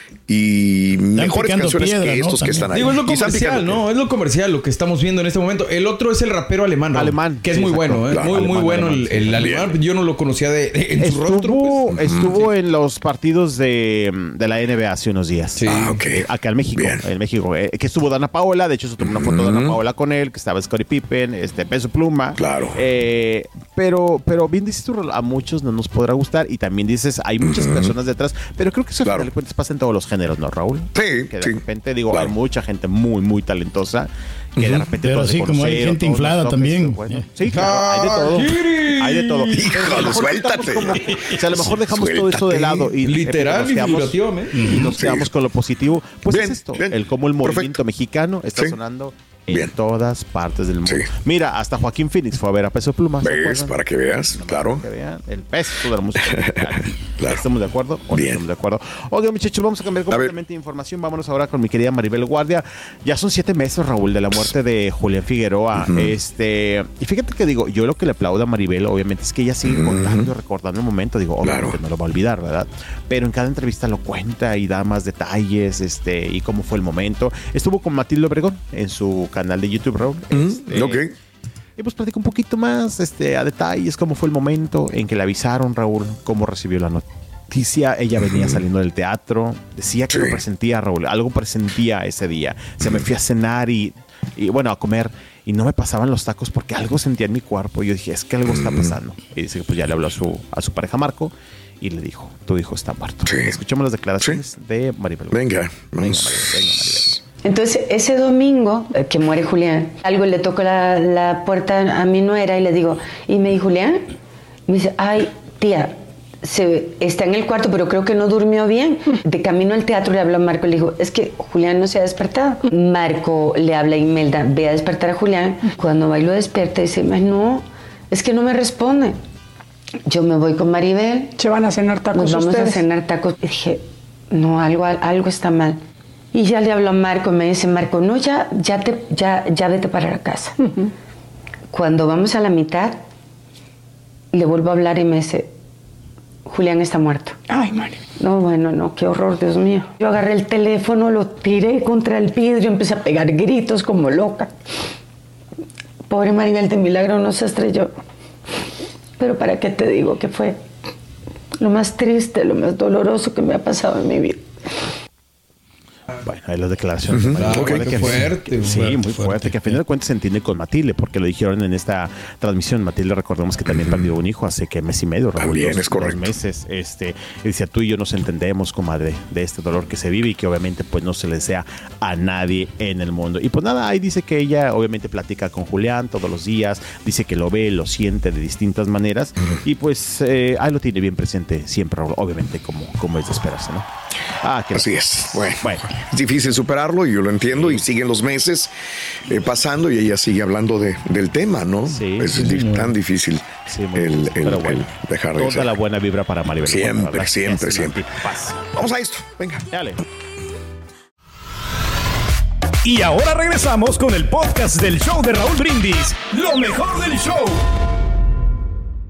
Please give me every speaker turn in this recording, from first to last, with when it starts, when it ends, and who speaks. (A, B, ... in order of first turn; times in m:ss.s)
0:00.3-0:03.8 A
0:01.2-0:02.8 B
0:02.7-0:11.9 C
0:06.9-0:09.6 D
0:08.1-0:08.4 A
0:09.4-0:09.7 A
0:11.0-0:53.8 D
0:11.9-0:12.4 A
0:15.6-0:16.0 C
0:15.6-0:16.2 A
0:16.8-0:17.0 A
0:19.0-0:19.8 A
0:22.4-0:22.8 A
0:27.4-0:27.9 A
0:30.9-0:31.6 A
0:34.6-0:37.3 B
0:37.5-0:39.7 C
0:39.5-0:42.9 A
0:43.0-0:44.7 C
0:44.5-0:44.9 B
0:45.0-0:45.3 A
0:46.3-0:47.8 A
0:53.2-0:54.8 A
0:54.3-1:21.0 D
0:56.2-0:57.4 A
0:58.1-0:58.4 A
1:05.8-1:06.1 A
1:09.6-1:10.3 A
1:11.4-1:11.8 A
1:20.3-1:21.1 A
1:21.8-1:47.2 D
1:28.2-1:28.6 A
1:30.1-1:30.4 A
1:38.4-1:39.0 A
1:43.2-1:43.6 A
1:45.3-1:47.2 A
1:47.4-1:54.1 E
1:54.7-2:09.2 E
2:10.0-2:11.3 E
2:11.4-2:12.8 F
2:12.1-2:15.8 E
2:16.3-2:20.6 E
2:21.7-2:23.0 E
2:24.3-2:25.5 E
2:26.4-2:27.4 E
2:27.5-2:28.0 F
2:28.2-2:34.5 E
2:36.1-2:37.9 E
2:39.2-2:40.6 E
2:41.6-2:44.4 E
2:46.2-3:13.9 D
2:47.1-2:47.9 A
2:47.4-2:49.0 C
2:48.7-2:49.8 B
2:53.7-2:54.0 A
2:55.4-2:56.3 A
3:14.4-3:15.9 D
3:14.7-3:18.7 A
3:17.5-3:17.8 D
3:19.3-3:25.7 A
3:21.9-3:22.3 D
3:23.7-3:28.6 D
3:26.6-3:28.0 A
3:28.7-3:29.7 A
3:29.7-3:30.0 D
3:32.8-3:37.6 B